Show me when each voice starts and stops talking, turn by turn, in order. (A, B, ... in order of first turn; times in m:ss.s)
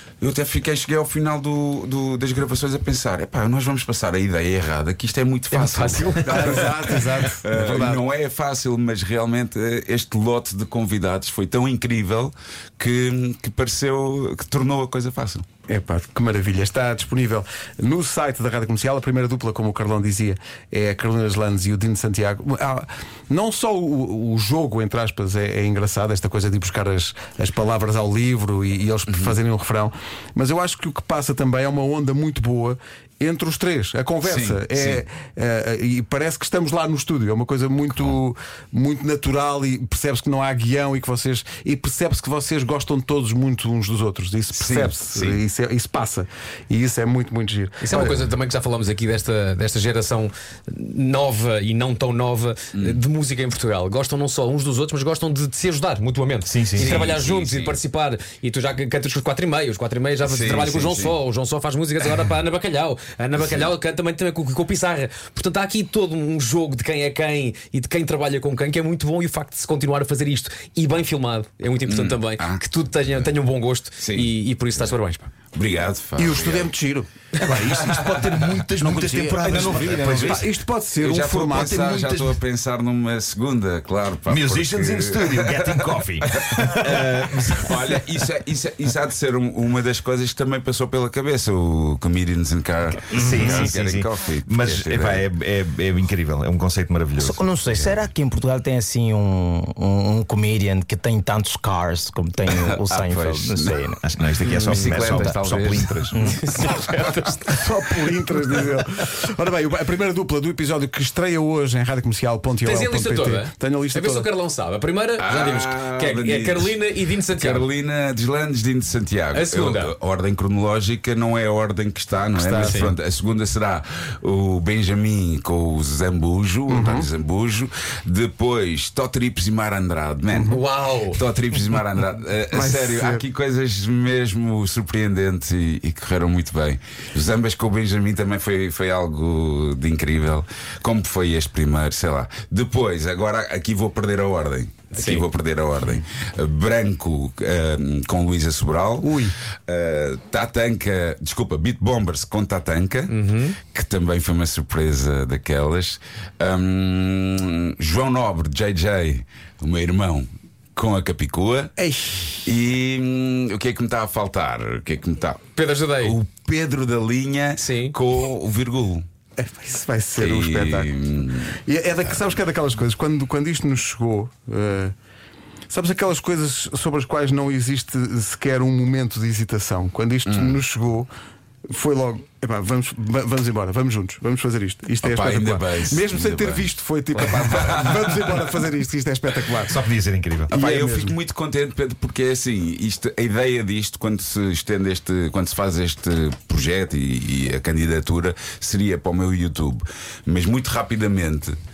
0:00.2-0:15.4 A
0:05.5-0:06.8 B
0:06.2-0:08.0 C
0:15.7-0:48.2 C
0:29.1-0:29.4 A
0:34.2-0:35.0 A
0:44.6-0:45.4 A
0:47.8-1:15.3 B
0:56.5-0:57.0 D
0:56.8-0:57.8 A
1:00.2-1:01.2 A
1:03.4-1:03.7 A
1:11.9-1:13.3 A
1:14.0-1:14.9 A
1:15.5-1:16.7 A
1:16.2-1:17.1 C
1:17.4-1:20.5 D
1:17.6-1:18.5 A
1:19.4-1:20.0 E
1:19.6-1:22.4 C
1:21.0-1:35.3 A
1:24.3-1:28.0 D
1:33.1-1:38.0 D
1:33.2-1:33.7 E
1:37.2-1:44.0 E
1:42.5-1:43.8 A
1:43.9-1:46.4 D
1:44.4-1:45.0 B
1:44.5-1:46.2 A
1:46.2-1:47.6 B
1:47.5-1:54.3 C
1:52.6-1:57.7 B
1:55.2-2:10.6 A
1:59.3-1:59.9 B
2:02.4-2:02.9 B
2:02.5-2:02.9 C
2:06.7-2:07.1 C
2:10.3-2:10.6 C
2:10.5-2:11.2 B
2:11.1-2:41.7 A
2:12.5-2:13.2 C
2:24.9-2:25.2 B
2:29.0-2:29.4 C
2:33.1-2:33.6 B
2:41.8-2:42.4 C
2:42.4-2:45.5 A
2:45.6-2:46.2 B
2:46.0-2:49.0 A
2:47.6-2:48.0 B
2:49.4-2:50.9 C
2:50.2-2:51.6 A
2:51.6-2:55.0 C
2:55.7-3:01.1 C
3:00.3-3:00.6 A
3:01.7-3:09.8 C
3:05.0-3:08.3 A
3:09.7-3:10.5 D
3:10.5-3:21.6 A
3:10.5-3:11.2 C